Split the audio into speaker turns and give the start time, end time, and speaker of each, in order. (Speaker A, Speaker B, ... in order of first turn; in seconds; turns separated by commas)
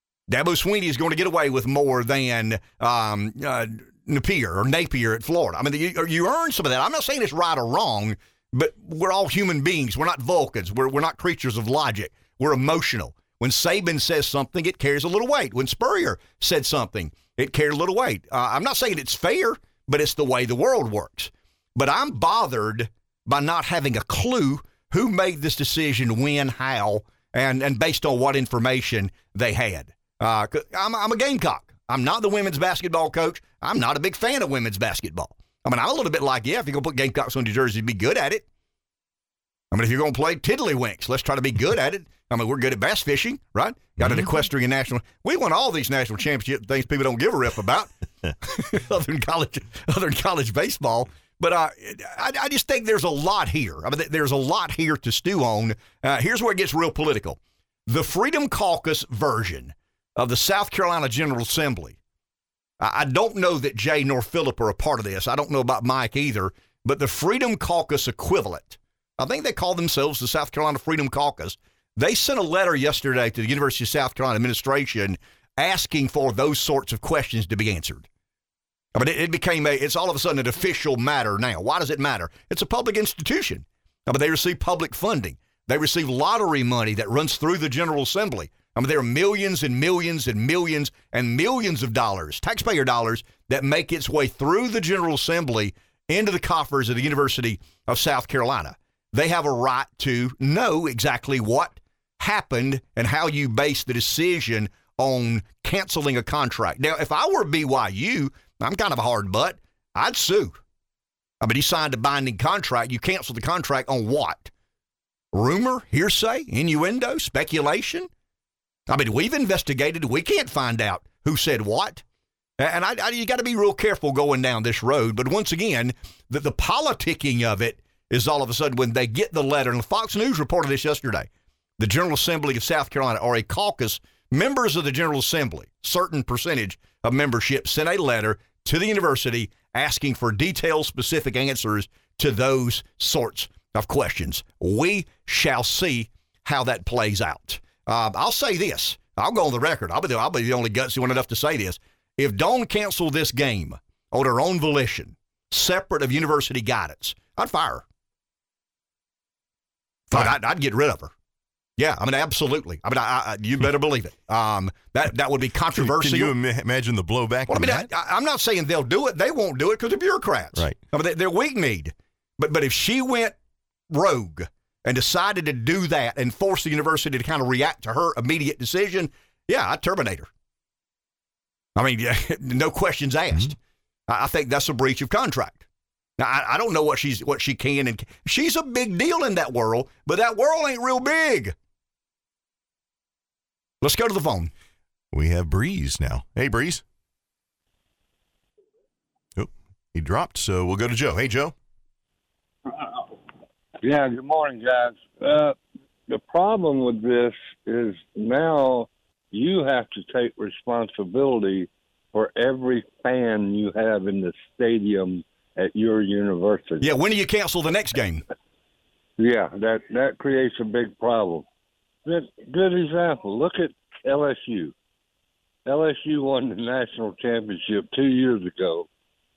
Speaker A: 0.3-38.5, Speaker A: 39.7-47.9, Speaker B: 44.0-44.3, Speaker A: 48.4-62.0, Speaker A: 62.8-78.1, Speaker A: 78.9-110.6, Speaker A: 111.4-114.5, Speaker A: 115.3-118.1, Speaker A: 118.9-122.0, Speaker A: 122.6-131.3, Speaker A: 131.8-157.8, Speaker A: 160.1-161.1, Speaker A: 161.8-166.3, Speaker B: 165.7-167.9, Speaker A: 167.5-173.3, Speaker A: 173.9-180.3, Speaker A: 181.8-183.6, Speaker A: 184.1-185.6, Speaker A: 186.2-191.6, Speaker A: 193.8-194.5, Speaker B: 195.1-196.8, Speaker B: 199.4-201.5, Speaker C: 203.8-205.6, Speaker C: 206.1-216.8, Speaker A: 216.8-218.2, Speaker C: 219.2-221.5, Speaker C: 222.1-224.7, Speaker C: 225.7-228.9